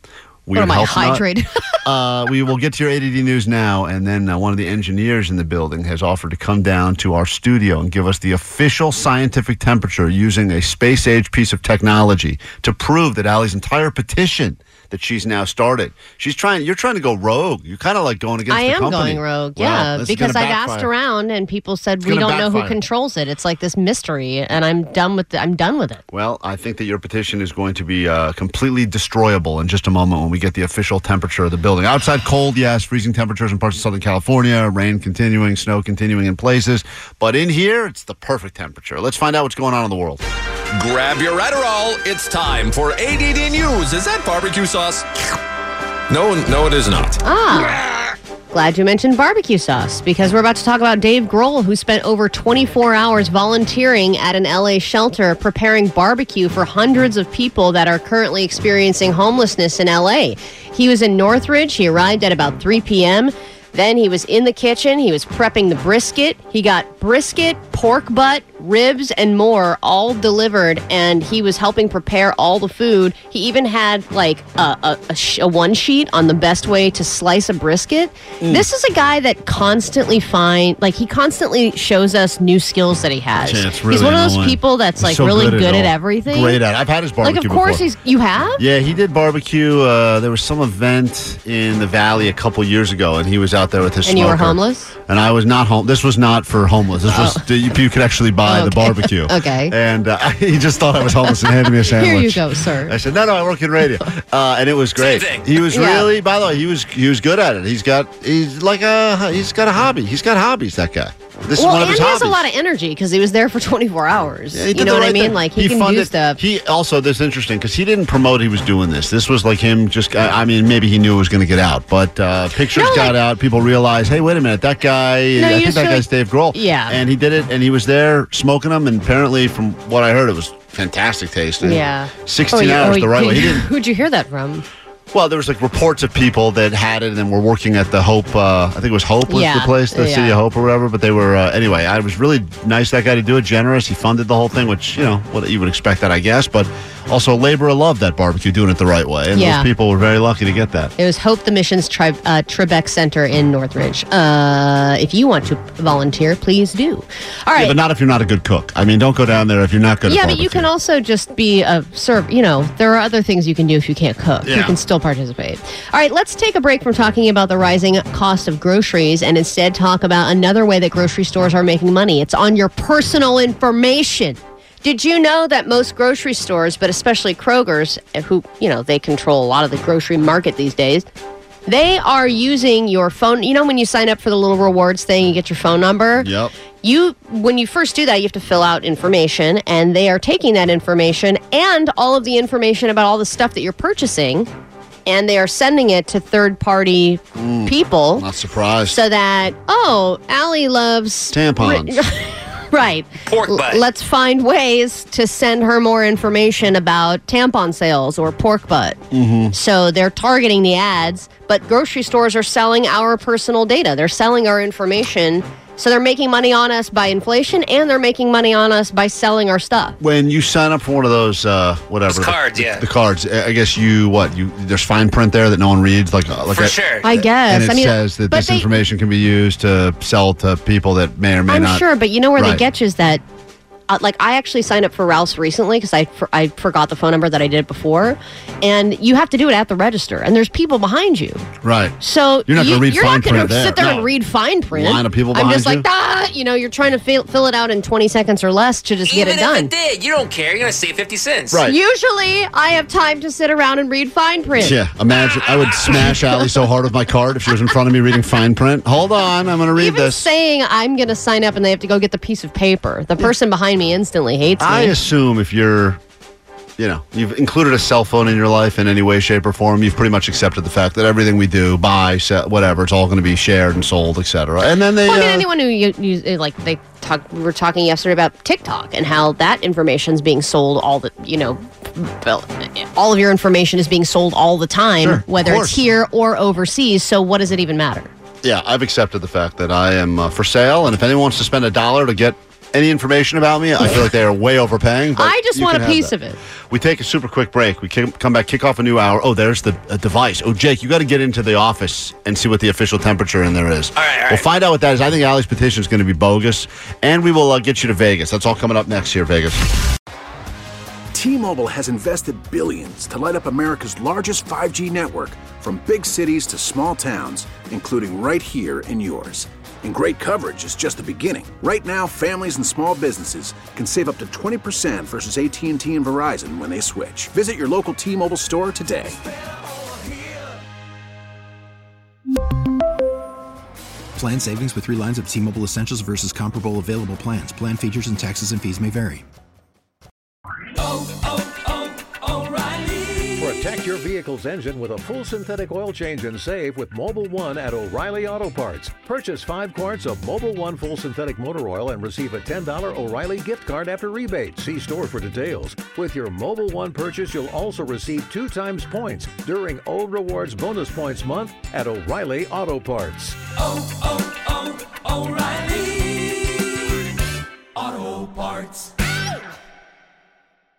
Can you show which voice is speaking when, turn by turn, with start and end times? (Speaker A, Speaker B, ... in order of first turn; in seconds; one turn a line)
Speaker A: 0.5-1.2
Speaker B: 0.5-1.6
Speaker A: 1.8-20.9
Speaker B: 18.5-26.0
Speaker A: 22.0-22.8
Speaker A: 26.1-40.2
Speaker C: 40.7-45.1
Speaker C: 46.1-47.2
Speaker B: 47.2-47.8
Speaker B: 48.5-86.6
Speaker A: 78.4-78.7
Speaker A: 83.4-87.9
Speaker B: 87.2-88.6
Speaker A: 88.6-112.5
Speaker B: 94.0-94.9
Speaker B: 97.1-97.4
Speaker B: 98.5-99.7
Speaker B: 101.5-103.0
Speaker D: 105.0-105.5
Speaker B: 105.7-106.1
Speaker B: 111.5-116.4
Speaker A: 114.5-133.7
Speaker B: 122.7-123.2
Speaker B: 125.4-127.0
Speaker B: 131.6-134.7
Speaker A: 135.1-150.9
Speaker B: 139.3-140.4
Speaker B: 149.3-149.7
Speaker B: 151.0-157.8
Speaker A: 157.6-160.7
Speaker B: 160.1-181.1
Speaker A: 164.4-164.8
Speaker B: 181.7-186.3
Speaker A: 186.2-186.5
Speaker B: 186.8-194.5
Speaker B: 195.1-198.2
Speaker A: 197.3-199.0
Speaker B: 198.9-209.0
Speaker A: 201.3-202.0
Speaker D: 203.2-203.8
Speaker A: 209.1-209.5
Speaker B: 209.5-220.0
Speaker A: 220.0-232.6
Speaker D: 222.1-222.8
Speaker D: 226.5-227.1
Speaker B: 227.0-228.7
Speaker B: 231.5-233.2
Speaker B: 233.9-241.4
Speaker A: 241.6-241.9
Speaker B: 242.0-249.7
Speaker A: 242.5-244.1
Speaker A: 244.7-245.8
Speaker D: 249.1-251.6
Speaker A: 251.5-251.8
Speaker B: 251.6-254.8
Speaker A: 254.6-260.3
Speaker B: 259.8-264.9
Speaker A: 264.6-266.0
Speaker A: 266.8-275.4
Speaker B: 275.1-288.1
Speaker A: 285.0-285.8
Speaker A: 288.4-296.1
Speaker B: 295.2-296.4
Speaker A: 296.7-309.7
Speaker D: 303.9-304.4
Speaker E: 311.1-329.2
Speaker F: 334.1-339.2
Speaker G: 343.3-363.4
Speaker H: 363.8-366.3
Speaker H: 367.8-368.9